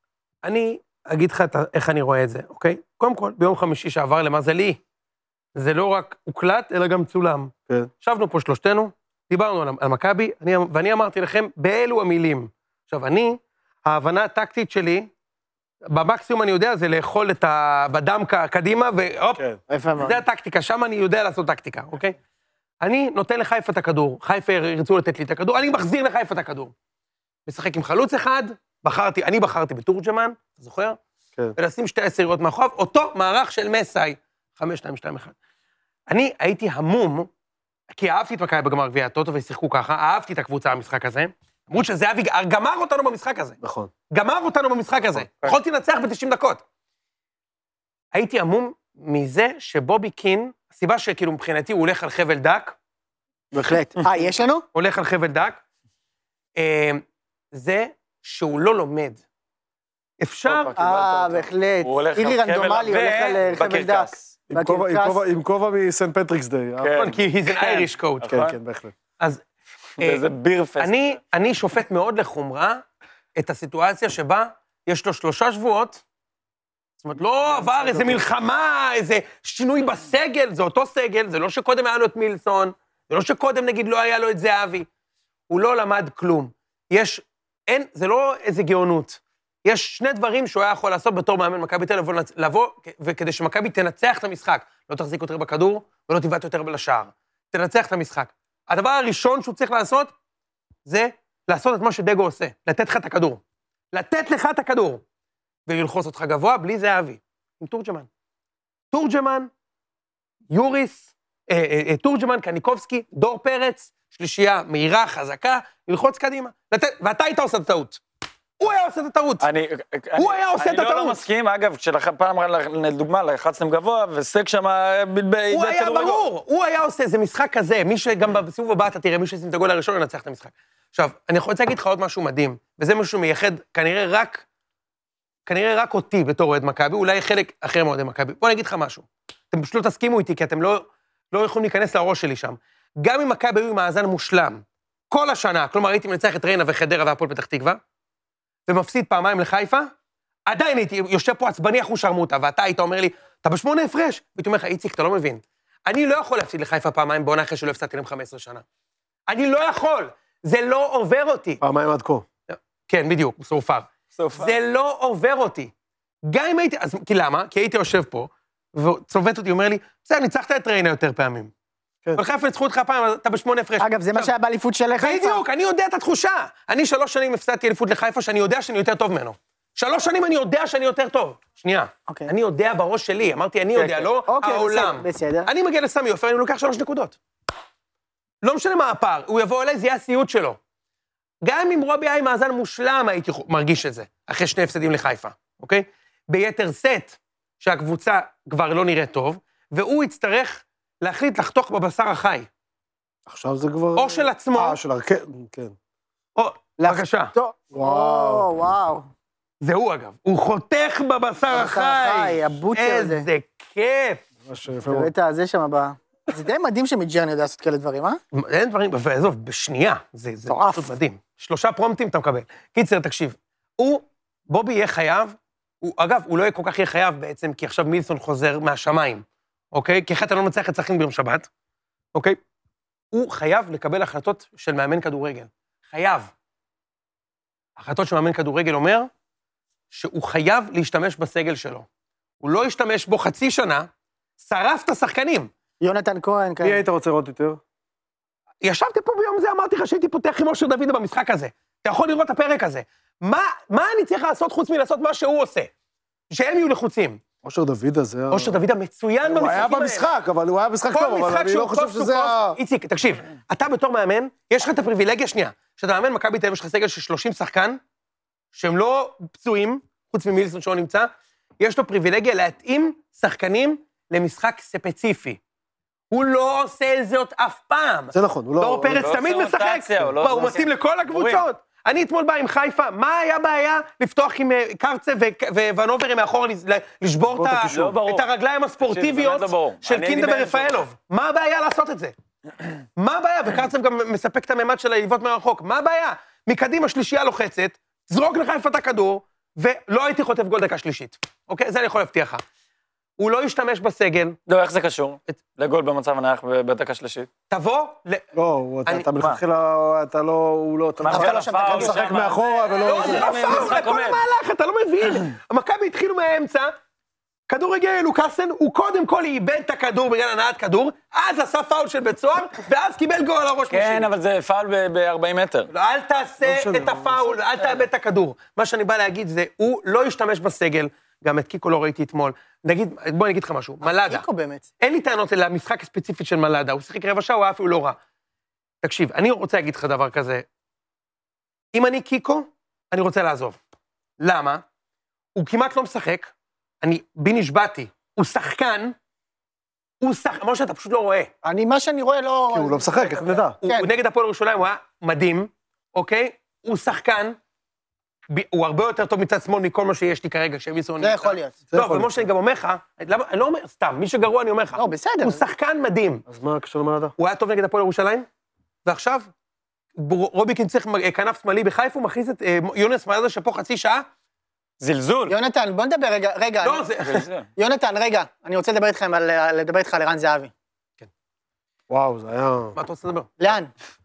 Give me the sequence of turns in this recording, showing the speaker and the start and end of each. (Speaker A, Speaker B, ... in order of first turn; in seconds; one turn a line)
Speaker A: 0.4-4.8
Speaker A: 5.5-15.1
Speaker A: 15.9-19.4
Speaker B: 19.7-20.2
Speaker A: 20.0-22.2
Speaker A: 22.8-26.7
Speaker A: 27.5-31.0
Speaker A: 31.6-35.3
Speaker A: 36.1-37.3
Speaker A: 37.9-43.6
Speaker C: 43.6-43.9
Speaker A: 44.1-46.6
Speaker A: 48.1-52.8
Speaker B: 53.5-54.6
Speaker A: 54.7-55.6
Speaker A: 56.6-59.2
Speaker A: 60.2-60.7
Speaker D: 60.5-64.2
Speaker B: 60.8-65.2
Speaker C: 64.5-67.1
Speaker D: 66.8-68.5
Speaker A: 67.0-68.3
Speaker C: 68.3-68.9
Speaker A: 70.0-70.2
Speaker D: 70.0-71.2
Speaker A: 70.8-72.8
Speaker A: 73.3-76.0
Speaker A: 77.0-84.9
Speaker C: 77.6-78.2
Speaker A: 85.5-100.1
Speaker A: 100.8-103.4
Speaker A: 103.9-105.0
Speaker A: 105.7-108.1
Speaker A: 108.9-109.5
Speaker A: 110.5-118.0
Speaker A: 118.6-119.4
Speaker D: 119.4-126.2
Speaker A: 120.2-121.2
Speaker A: 125.5-134.4
Speaker A: 135.4-147.8
Speaker A: 148.7-149.9
Speaker A: 150.5-158.6
Speaker A: 159.3-161.6
Speaker C: 161.6-162.2
Speaker A: 162.5-165.7
Speaker D: 164.2-164.5
Speaker A: 166.2-171.5
Speaker A: 172.1-174.3
Speaker B: 173.8-175.4
Speaker A: 175.0-187.2
Speaker D: 183.8-184.1
Speaker B: 184.2-185.5
Speaker A: 188.4-190.6
Speaker A: 191.4-202.5
Speaker C: 203.3-205.7
Speaker A: 203.9-204.8
Speaker A: 206.3-207.3
Speaker B: 206.8-209.1
Speaker C: 207.7-208.5
Speaker A: 209.6-214.2
Speaker B: 211.5-213.2
Speaker C: 214.4-215.1
Speaker B: 214.8-218.2
Speaker A: 218.3-231.5
Speaker B: 220.5-220.9
Speaker A: 233.1-236.3
Speaker A: 237.8-239.1
Speaker A: 239.9-241.9
Speaker A: 242.4-243.9
Speaker A: 244.4-245.5
Speaker B: 245.8-246.8
Speaker C: 246.6-247.6
Speaker A: 248.6-255.7
Speaker A: 256.3-257.2
Speaker C: 257.4-258.6
Speaker A: 258.3-260.1
Speaker C: 259.2-262.6
Speaker A: 260.9-267.8
Speaker A: 268.5-275.4
Speaker A: 276.1-292.1
Speaker C: 278.1-279.1
Speaker D: 278.9-281.4
Speaker C: 287.3-287.9
Speaker D: 287.6-288.2
Speaker D: 288.8-290.8
Speaker A: 293.0-302.4
Speaker A: 303.2-304.4
Speaker D: 304.5-307.3
Speaker A: 307.5-308.2
Speaker C: 308.3-313.6
Speaker D: 311.0-314.2
Speaker B: 311.1-312.1
Speaker A: 312.8-316.7
Speaker A: 317.5-324.1
Speaker D: 323.7-325.7
Speaker A: 325.7-334.2
Speaker C: 326.4-327.4
Speaker B: 334.1-334.7
Speaker A: 334.8-338.0
Speaker A: 338.8-340.4
Speaker A: 341.7-343.6
Speaker A: 344.2-344.6
Speaker A: 345.3-348.9
Speaker A: 350.0-351.3
Speaker B: 351.4-353.9
Speaker C: 352.5-353.6
Speaker A: 353.6-357.4
Speaker A: 358.3-366.2
Speaker B: 361.0-361.6
Speaker C: 361.7-362.1
Speaker B: 364.8-365.4
Speaker C: 366.3-367.1
Speaker A: 367.2-368.3
Speaker A: 368.9-369.3
Speaker A: 369.9-374.1
Speaker D: 374.8-375.4
Speaker B: 375.3-376.9
Speaker A: 376.6-377.2
Speaker D: 377.0-377.5
Speaker B: 377.6-380.5
Speaker C: 381.9-382.8
Speaker A: 382.7-383.3
Speaker B: 383.4-383.7